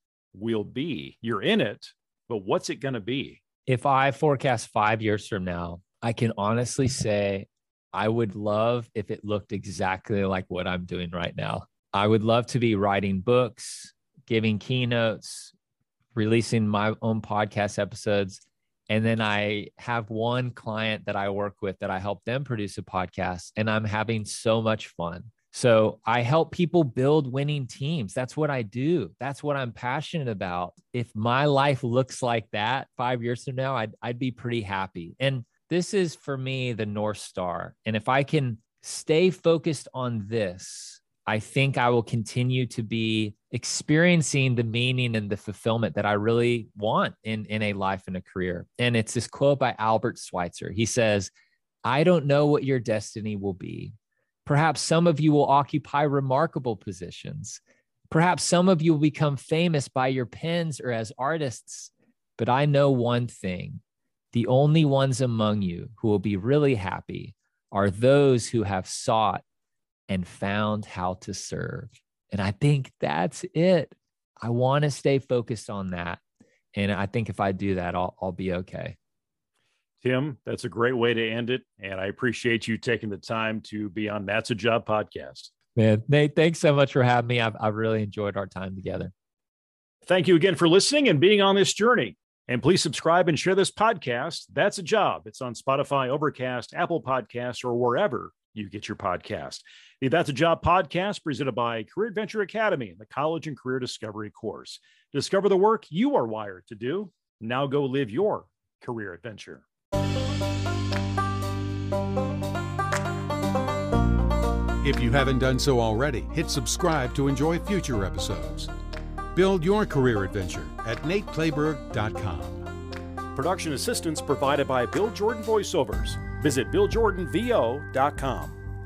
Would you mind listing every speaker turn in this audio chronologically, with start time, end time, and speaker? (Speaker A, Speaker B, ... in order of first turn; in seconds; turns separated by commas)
Speaker A: 0.3-3.4, Speaker B: 3.7-15.5, Speaker B: 16.1-51.3, Speaker B: 51.9-54.0, Speaker B: 54.5-63.8, Speaker B: 64.3-69.4, Speaker B: 70.1-76.2, Speaker B: 76.8-79.0, Speaker A: 80.0-85.5, Speaker B: 85.8-89.1, Speaker A: 90.1-109.6, Speaker C: 114.8-118.7, Speaker C: 119.3-122.6, Speaker A: 123.3-128.6